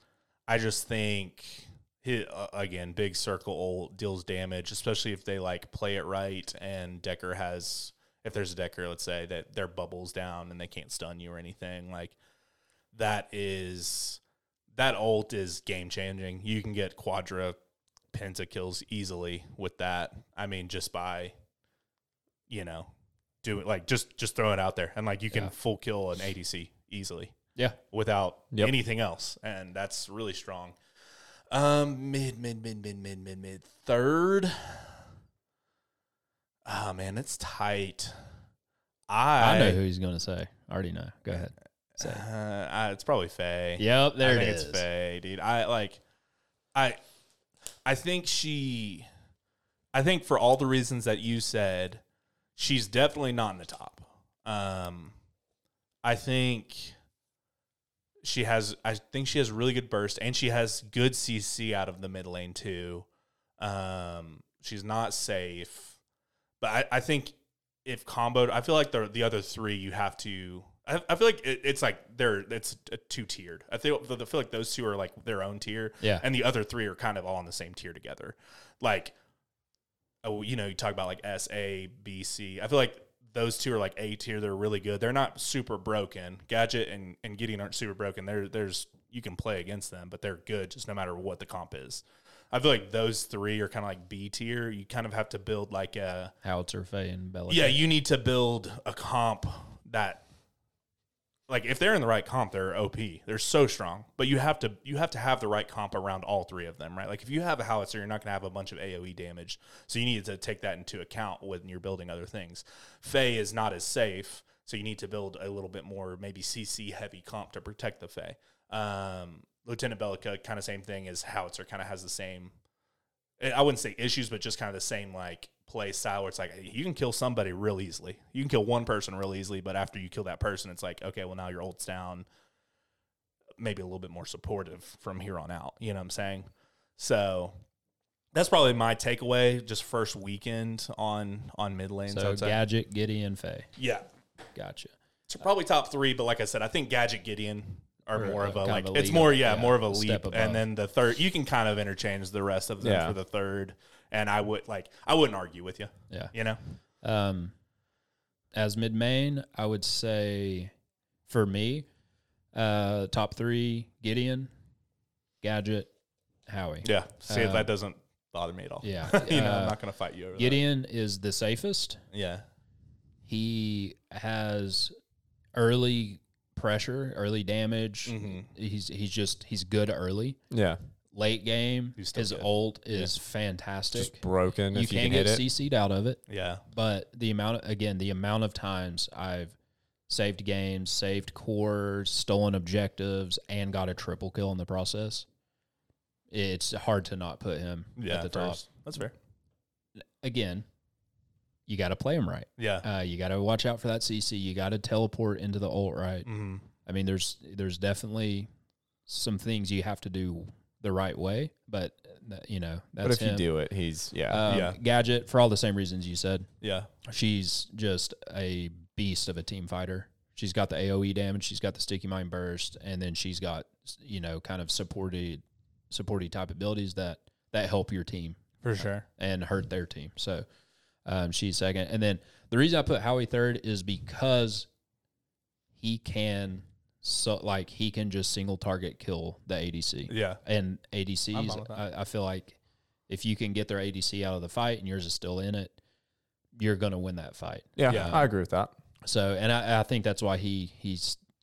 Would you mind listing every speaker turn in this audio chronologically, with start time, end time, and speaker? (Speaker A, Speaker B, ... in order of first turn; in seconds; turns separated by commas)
Speaker A: 0.5-12.2, Speaker A: 12.9-14.2, Speaker A: 14.7-17.6, Speaker A: 18.1-21.3, Speaker A: 22.5-22.9, Speaker A: 23.4-27.3, Speaker A: 27.9-30.8, Speaker A: 31.5-35.0, Speaker A: 36.6-38.1, Speaker A: 39.1-39.8, Speaker B: 39.4-42.2, Speaker A: 42.0-46.0, Speaker B: 43.8-44.8, Speaker A: 47.9-49.1, Speaker A: 49.9-52.0, Speaker A: 52.6-55.1, Speaker A: 56.0-56.9, Speaker A: 58.2-63.1, Speaker A: 63.6-66.0, Speaker A: 66.6-79.2, Speaker A: 80.2-96.3, Speaker B: 96.4-97.8, Speaker A: 97.5-100.2, Speaker A: 101.5-122.5, Speaker A: 123.4-132.3, Speaker A: 133.6-137.5, Speaker A: 138.3-142.6, Speaker B: 142.1-143.7, Speaker A: 143.8-144.0, Speaker B: 144.6-144.9, Speaker A: 145.3-156.6, Speaker B: 148.2-150.6, Speaker C: 152.8-153.2, Speaker B: 157.0-157.5, Speaker B: 158.5-160.7, Speaker B: 161.3-161.9, Speaker B: 162.5-164.5, Speaker B: 165.4-165.9, Speaker B: 166.5-167.7, Speaker A: 166.8-170.6, Speaker B: 168.8-169.8, Speaker B: 170.4-172.0, Speaker A: 172.1-172.4, Speaker B: 173.3-174.9, Speaker B: 175.6-180.4, Speaker A: 178.1-178.5, Speaker C: 180.5-180.8, Speaker B: 181.1-184.2, Speaker A: 182.0-182.5, Speaker C: 183.9-185.4, Speaker B: 184.7-186.2, Speaker A: 186.3-186.6, Speaker B: 186.7-189.6, Speaker B: 190.1-195.3, Speaker B: 196.3-198.7, Speaker A: 198.0-199.1, Speaker B: 200.0-200.7, Speaker B: 201.7-206.3, Speaker A: 202.6-202.8, Speaker A: 206.3-206.7, Speaker B: 206.8-208.5, Speaker B: 209.1-213.5, Speaker C: 213.0-214.4, Speaker B: 214.3-216.5, Speaker A: 214.5-214.8, Speaker A: 216.6-216.9, Speaker B: 217.1-230.4, Speaker A: 228.6-229.1, Speaker B: 231.1-234.7, Speaker B: 235.8-245.8, Speaker A: 240.1-240.4, Speaker A: 241.3-241.8, Speaker B: 246.6-248.3, Speaker C: 247.8-248.7, Speaker A: 247.9-248.2, Speaker B: 249.0-251.2